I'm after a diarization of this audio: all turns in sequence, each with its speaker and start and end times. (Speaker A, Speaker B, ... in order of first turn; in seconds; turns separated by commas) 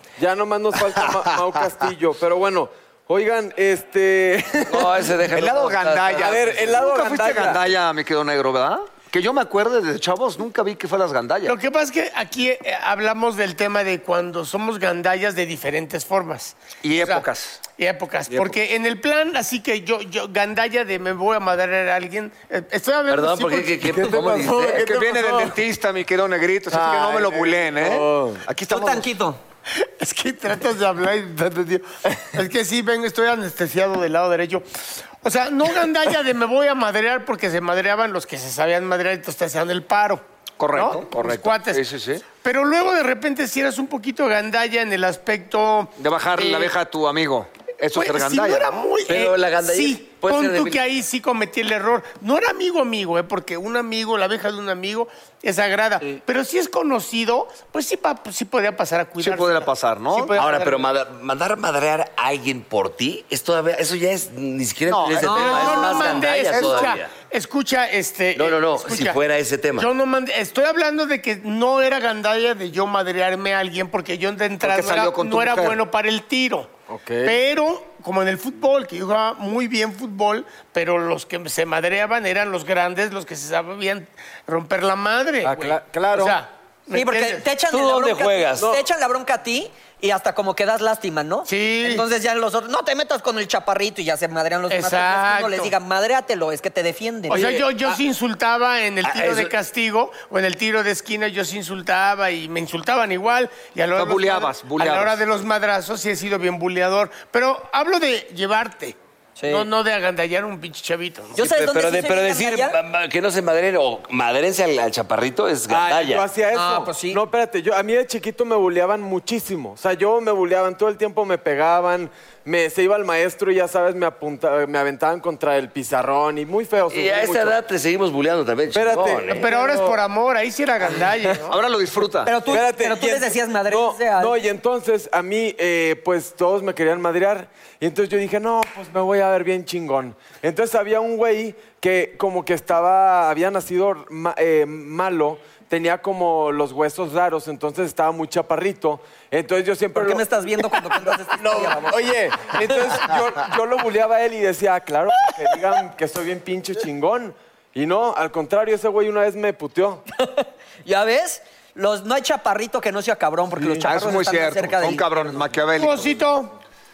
Speaker A: 0.2-5.1, Speaker B: 1.0-1.5, Speaker C: 4.7-6.7, Speaker B: 5.3-11.5, Speaker A: 6.2-7.6, Speaker D: 11.4-23.8, Speaker B: 16.8-17.6, Speaker A: 18.3-18.5, Speaker C: 23.1-24.9, Speaker A: 23.8-25.6, Speaker B: 24.6-29.1, Speaker A: 26.7-28.4, Speaker E: 28.7-29.4, Speaker D: 29.7-34.6, Speaker D: 35.2-46.7, Speaker B: 40.6-42.2, Speaker B: 46.0-48.9, Speaker D: 47.9-60.8, Speaker C: 49.0-50.8, Speaker B: 59.2-60.4, Speaker C: 60.4-67.1, Speaker B: 64.9-67.0, Speaker E: 65.2-66.0, Speaker D: 65.2-69.2, Speaker C: 68.3-69.9, Speaker D: 69.8-76.7, Speaker B: 74.6-75.8, Speaker A: 76.9-77.4, Speaker D: 77.2-87.5, Speaker A: 85.4-86.4, Speaker E: 86.9-97.5, Speaker C: 87.7-88.8, Speaker D: 91.5-92.0, Speaker D: 94.7-95.7, Speaker D: 97.3-111.4, Speaker A: 97.3-98.0, Speaker C: 99.0-99.5, Speaker B: 104.0-105.2, Speaker E: 109.4-109.7, Speaker E: 111.3-112.8, Speaker C: 111.4-116.2, Speaker A: 115.7-127.5, Speaker E: 116.5-117.2, Speaker C: 126.9-129.5, Speaker A: 128.7-130.0, Speaker D: 129.3-131.6, Speaker A: 130.9-131.3, Speaker B: 131.4-132.3, Speaker E: 132.2-134.4, Speaker A: 132.4-150.8, Speaker E: 149.9-152.1, Speaker A: 151.3-160.0, Speaker E: 152.7-153.1, Speaker E: 160.1-165.4, Speaker A: 163.6-163.8, Speaker B: 163.8-166.2, Speaker D: 165.8-166.5